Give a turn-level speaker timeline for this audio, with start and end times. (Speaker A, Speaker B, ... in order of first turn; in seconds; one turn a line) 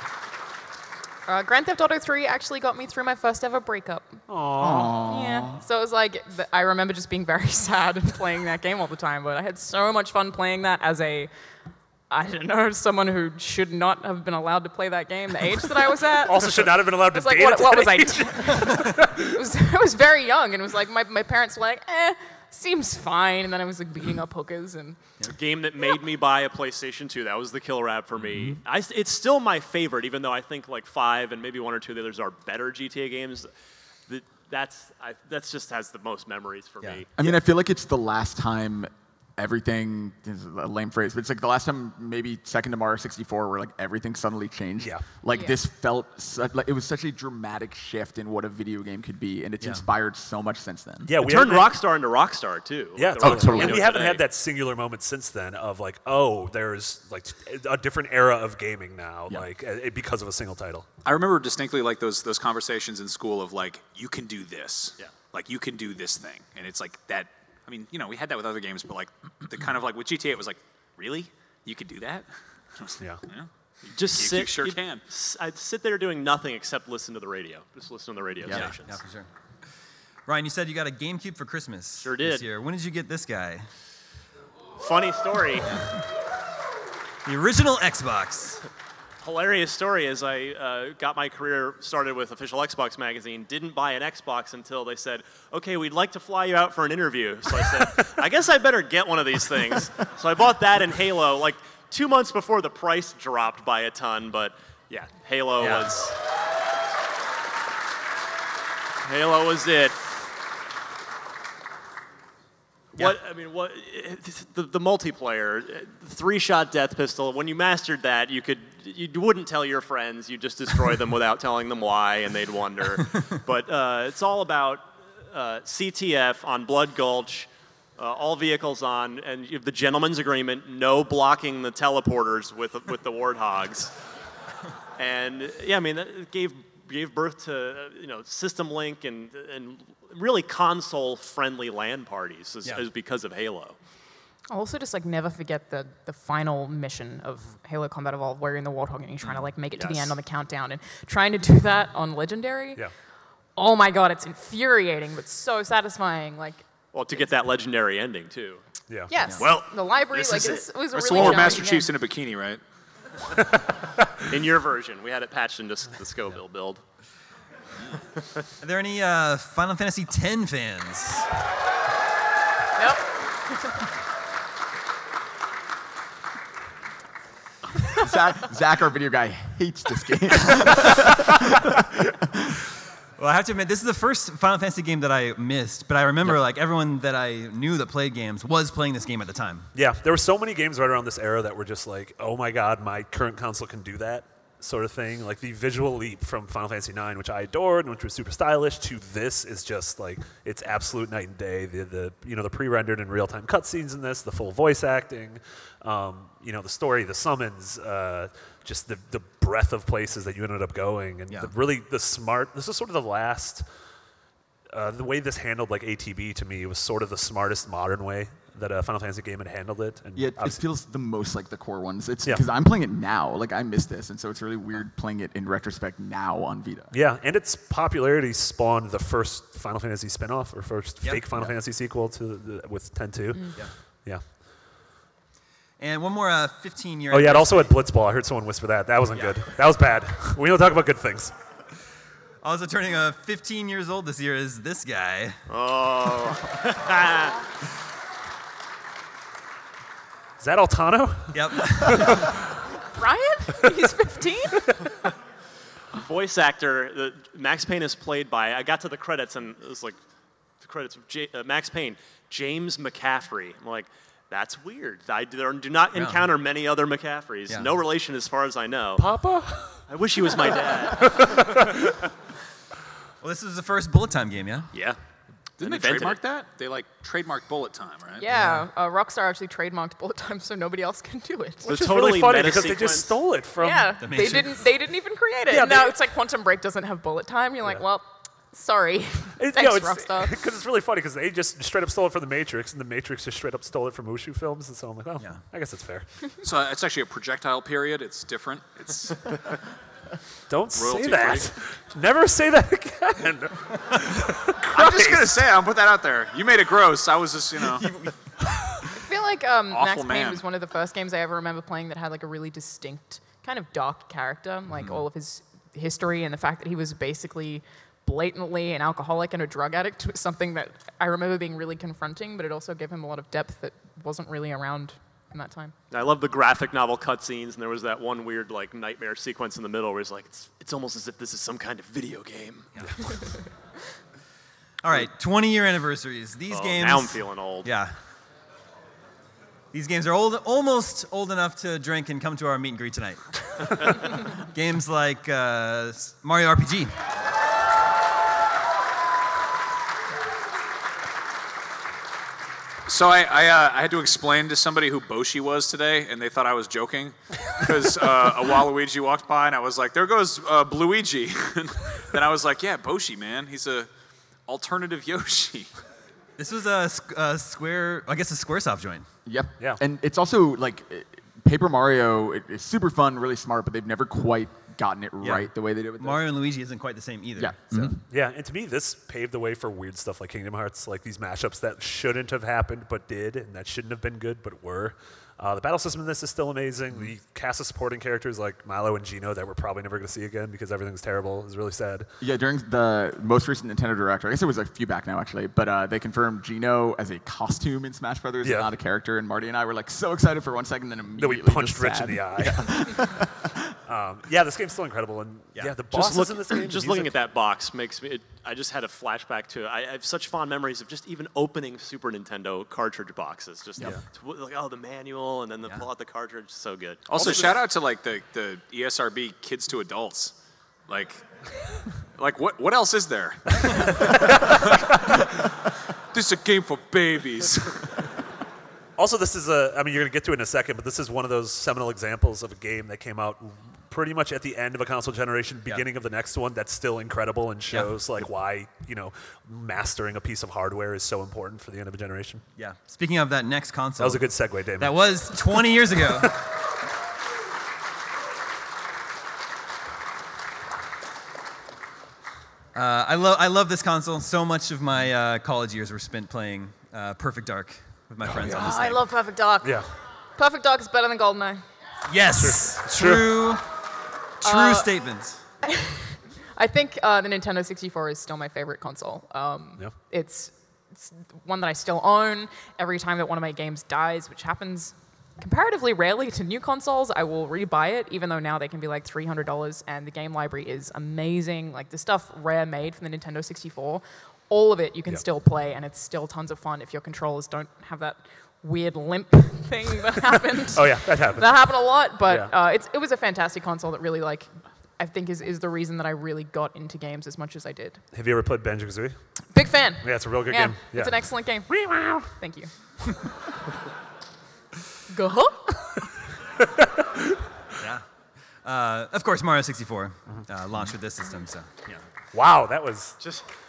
Speaker A: 1.2-4.2
Speaker B: 4.3-5.1
Speaker C: 4.6-5.6
Speaker A: 5.0-11.3
Speaker A: 12.1-25.0
Speaker B: 16.2-19.4
Speaker D: 25.3-33.5
Speaker D: 34.1-37.4
Speaker C: 37.2-51.1
Speaker A: 45.3-45.6
Speaker B: 51.0-51.8
Speaker D: 51.2-54.2
Speaker B: 53.0-60.9
Speaker C: 53.2-53.8
Speaker E: 61.0-75.0
Speaker D: 73.9-79.0
Speaker C: 78.4-78.7
Speaker F: 78.5-79.3
Speaker F: 80.3-83.7
Speaker D: 82.0-82.5
Speaker D: 84.8-85.8
Speaker F: 87.2-88.6
Speaker D: 89.2-106.1
Speaker F: 105.6-106.0
Speaker D: 109.0-110.0
Speaker D: 113.0-133.9
Speaker D: 135.0-143.8
Speaker A: 144.5-152.9
Speaker D: 149.7-150.2
Speaker A: 153.5-156.6
Speaker D: 156.9-158.6
Speaker B: 158.9-159.1
Speaker A: 159.1-161.9
Speaker E: 159.4-162.6
Speaker D: 164.3-166.8
Speaker F: 168.6-171.2
Speaker A: 172.8-173.8
Speaker C: 177.9-181.4
Speaker F: 183.2-189.7
Speaker B: 189.7-213.7
Speaker F: 211.3-211.5
Speaker B: 214.7-220.6
Speaker C: 220.1-226.9
Speaker B: 226.9-234.2
Speaker F: 231.0-231.3
Speaker F: 235.8-237.7
Speaker B: 237.1-241.3
Speaker F: 242.4-245.4
Speaker D: 245.5-247.4
Speaker B: 250.4-252.3
Speaker F: 251.3-252.2
Speaker A: 252.9-254.7
Speaker D: 256.0-259.9
Speaker D: 260.6-269.1
Speaker F: 265.9-266.3
Speaker B: 269.0-269.9
Speaker D: 269.9-271.4
Speaker B: 270.9-271.9
Speaker F: 273.2-274.7
Speaker D: 274.7-275.0
Speaker E: 275.6-278.2
Speaker D: 275.6-276.2
Speaker A: 278.2-281.6
Speaker F: 278.3-278.7
Speaker D: 281.6-283.2
Speaker B: 281.6-284.3
Speaker A: 283.6-290.4
Speaker F: 284.0-284.5
Speaker B: 285.5-285.9
Speaker B: 289.4-296.1
Speaker E: 296.4-299.4
Speaker B: 300.5-305.4
Speaker E: 300.7-301.5
Speaker E: 304.7-308.0
Speaker A: 308.9-325.7
Speaker E: 309.7-310.4
Speaker D: 325.9-333.2
Speaker F: 334.8-337.9
Speaker D: 336.5-337.7
Speaker F: 339.7-346.9
Speaker E: 352.9-363.9
Speaker E: 364.4-365.7
Speaker F: 366.4-369.1
Speaker C: 369.2-376.2
Speaker F: 375.2-377.9
Speaker C: 377.4-378.0
Speaker B: 378.0-392.1
Speaker C: 392.2-403.6
Speaker B: 398.4-398.7
Speaker B: 401.2-403.1
Speaker B: 403.9-407.1
Speaker D: 405.9-417.6
Speaker E: 417.1-420.3
Speaker E: 420.9-421.2
Speaker E: 422.1-425.4
Speaker B: 423.6-425.1
Speaker E: 426.1-427.9
Speaker B: 429.0-442.4
Speaker F: 442.6-446.3
Speaker B: 444.0-445.6
Speaker F: 452.7-459.0
Speaker B: 458.2-458.9
Speaker A: 458.6-459.7
Speaker B: 459.6-459.9
Speaker A: 460.4-461.6
Speaker F: 462.1-463.6
Speaker B: 462.3-463.4
Speaker F: 464.4-465.4
Speaker A: 464.4-464.9
Speaker A: 465.6-498.0
Speaker B: 490.7-492.5
Speaker B: 498.1-499.2
Speaker A: 499.5-502.7
Speaker B: 500.0-502.4
Speaker A: 505.1-506.0
Speaker B: 506.6-507.4
Speaker F: 507.8-508.0
Speaker F: 508.6-512.0
Speaker B: 512.3-513.3
Speaker D: 513.2-513.5